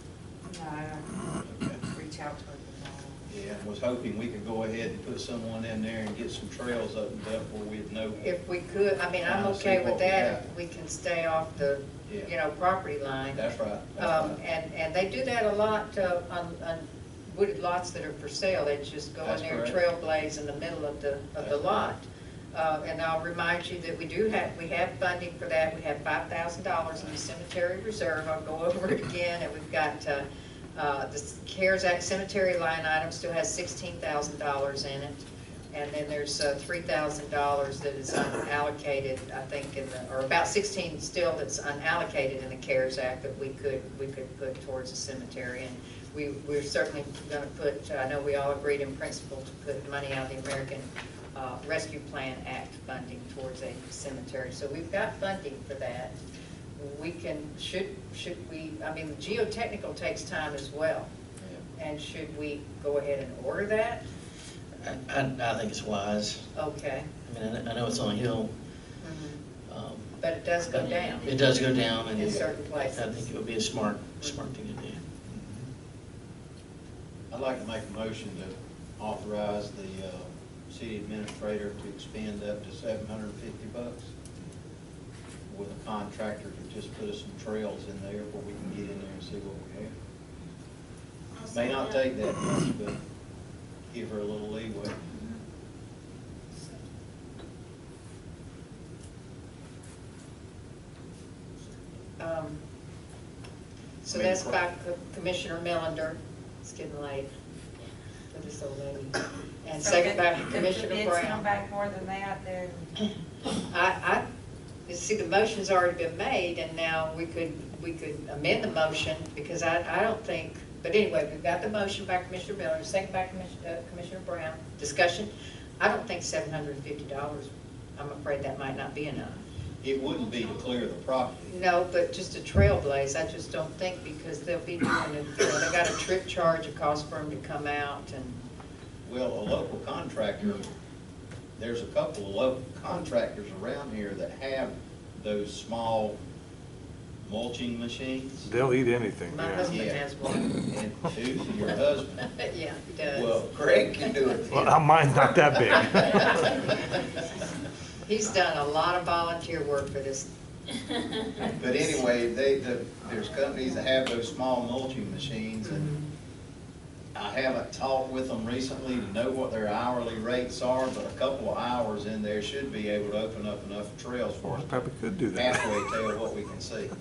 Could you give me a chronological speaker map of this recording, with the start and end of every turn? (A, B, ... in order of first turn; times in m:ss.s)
0:00.4-0:01.1 A
0:01.4-0:01.8 B
0:01.8-0:03.2 A
0:03.3-0:08.2 B
0:08.2-0:13.4 C
0:09.2-0:10.4 B
0:13.3-0:14.4 B
0:14.0-0:56.1 C
0:19.2-0:19.8 B
0:21.4-0:21.8 B
0:56.8-1:01.1 C
1:01.7-1:04.0 C
1:04.8-1:06.4 D
1:06.5-1:07.1 C
1:07.2-1:08.5 D
1:09.0-1:09.4 C
1:09.7-1:10.0 D
1:10.2-1:13.3 C
1:10.7-1:12.3 D
1:12.9-1:15.0 D
1:17.3-1:24.1 B
1:25.5-1:29.9 B
1:31.5-1:33.0 B
1:33.9-1:35.0 B
1:42.2-1:42.6 C
1:44.0-1:47.3 C
1:44.0-1:44.6 B
1:48.3-1:51.4 C
1:49.8-1:52.9 A
1:53.6-1:54.2 C
1:54.8-2:09.4 C
2:09.8-2:11.5 B
2:11.5-2:18.4 C
2:19.0-2:20.7 B
2:21.6-2:26.2 B
2:27.2-2:28.5 B
2:28.4-2:29.8 E
2:29.3-2:30.5 C
2:29.6-2:32.3 B
2:32.3-2:33.4 C
2:33.1-2:34.7 B
2:34.5-2:36.7 E
2:38.0-2:40.3 C
2:41.6-2:45.9 B
2:45.6-2:46.0 C
2:47.1-2:54.8 B
2:54.4-2:55.6 E
2:55.3-2:56.9 B